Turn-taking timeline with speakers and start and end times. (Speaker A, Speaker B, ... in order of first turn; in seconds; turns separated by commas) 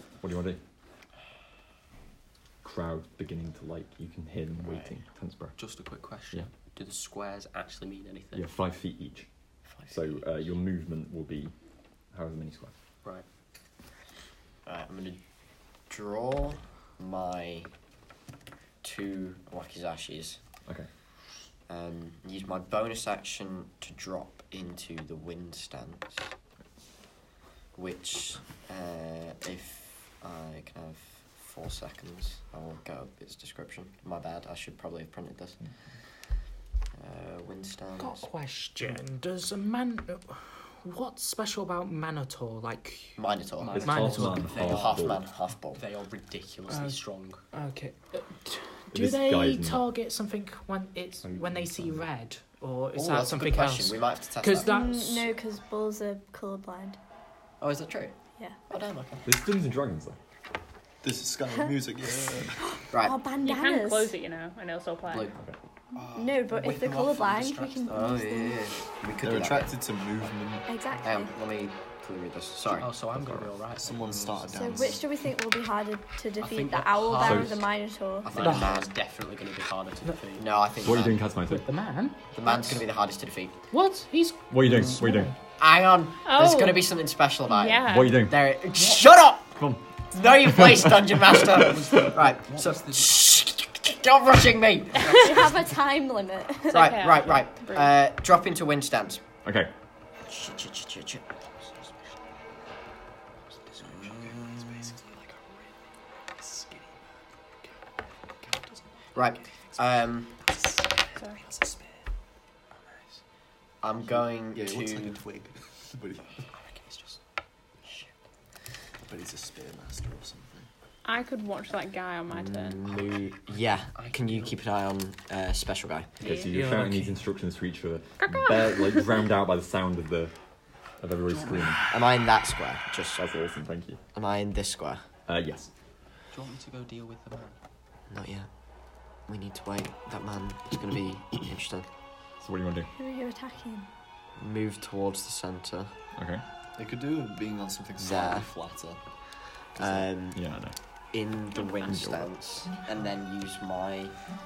Speaker A: 0.2-0.6, Speaker A: 2.6-5.6, Speaker B: 4.7-4.9, Speaker C: 5.6-8.5, Speaker A: 8.3-9.3, Speaker A: 9.9-11.5, Speaker A: 12.1-12.7, Speaker B: 14.7-15.2, Speaker B: 15.9-17.7, Speaker B: 18.8-20.4, Speaker B: 21.7-26.3, Speaker B: 27.8-35.6, Speaker B: 37.0-38.2, Speaker D: 38.0-43.2, Speaker B: 43.2-43.8, Speaker C: 43.6-45.2, Speaker A: 43.7-45.2, Speaker D: 43.8-44.5, Speaker B: 44.6-45.8, Speaker C: 45.7-47.4, Speaker D: 46.7-47.0, Speaker D: 47.5-55.3, Speaker A: 48.9-49.9, Speaker A: 51.2-52.0, Speaker B: 52.9-54.7, Speaker E: 54.6-57.0, Speaker B: 57.6-58.1, Speaker B: 58.7-59.3, Speaker A: 59.2-60.2, Speaker F: 61.0-62.6, Speaker B: 62.9-63.2, Speaker E: 62.9-64.1, Speaker G: 63.4-65.3, Speaker C: 66.0-68.1, Speaker E: 66.2-68.6, Speaker B: 67.9-69.8, Speaker F: 69.2-70.7, Speaker E: 70.7-71.3, Speaker B: 71.0-72.9, Speaker C: 72.7-74.5, Speaker A: 73.2-73.5, Speaker F: 73.8-75.1, Speaker E: 74.5-78.3, Speaker C: 76.4-77.7, Speaker A: 77.2-77.5, Speaker B: 78.2-78.9, Speaker C: 78.3-80.5, Speaker D: 78.4-78.7, Speaker B: 80.4-81.2, Speaker A: 80.8-81.7, Speaker D: 81.5-82.2, Speaker B: 82.3-83.5, Speaker D: 83.7-85.3, Speaker A: 84.5-85.3, Speaker B: 85.6-89.6, Speaker G: 86.2-86.9, Speaker G: 87.5-88.3, Speaker A: 87.8-88.4, Speaker A: 89.6-89.8, Speaker B: 90.1-95.3, Speaker A: 90.4-91.4, Speaker C: 91.7-93.2, Speaker G: 95.0-95.3, Speaker E: 95.1-96.9, Speaker B: 96.7-99.2, Speaker G: 96.7-98.0, Speaker A: 99.5-99.7, Speaker B: 100.3-101.3, Speaker C: 103.6-105.3, Speaker B: 103.8-104.9, Speaker C: 106.4-106.8, Speaker B: 109.2-110.4, Speaker C: 111.4-111.8, Speaker B: 113.8-115.2, Speaker F: 114.5-116.3, Speaker C: 116.6-117.2, Speaker F: 119.1-120.7, Speaker G: 121.0-122.9, Speaker B: 122.3-126.1, Speaker C: 124.0-124.6, Speaker G: 126.2-126.5, Speaker A: 126.2-130.3, Speaker D: 126.5-127.2, Speaker G: 128.2-129.1, Speaker A: 131.0-131.8, Speaker B: 131.7-133.3, Speaker A: 133.2-134.0, Speaker B: 134.1-135.0, Speaker A: 135.3-135.7, Speaker C: 136.3-137.6, Speaker B: 138.1-138.5, Speaker B: 139.3-141.9, Speaker A: 142.4-142.9, Speaker E: 143.0-143.9, Speaker B: 144.4-145.9, Speaker A: 146.2-146.4, Speaker F: 146.8-149.0, Speaker B: 148.0-148.5, Speaker B: 149.8-150.4, Speaker A: 149.8-150.8, Speaker B: 151.1-154.2, Speaker A: 151.6-152.3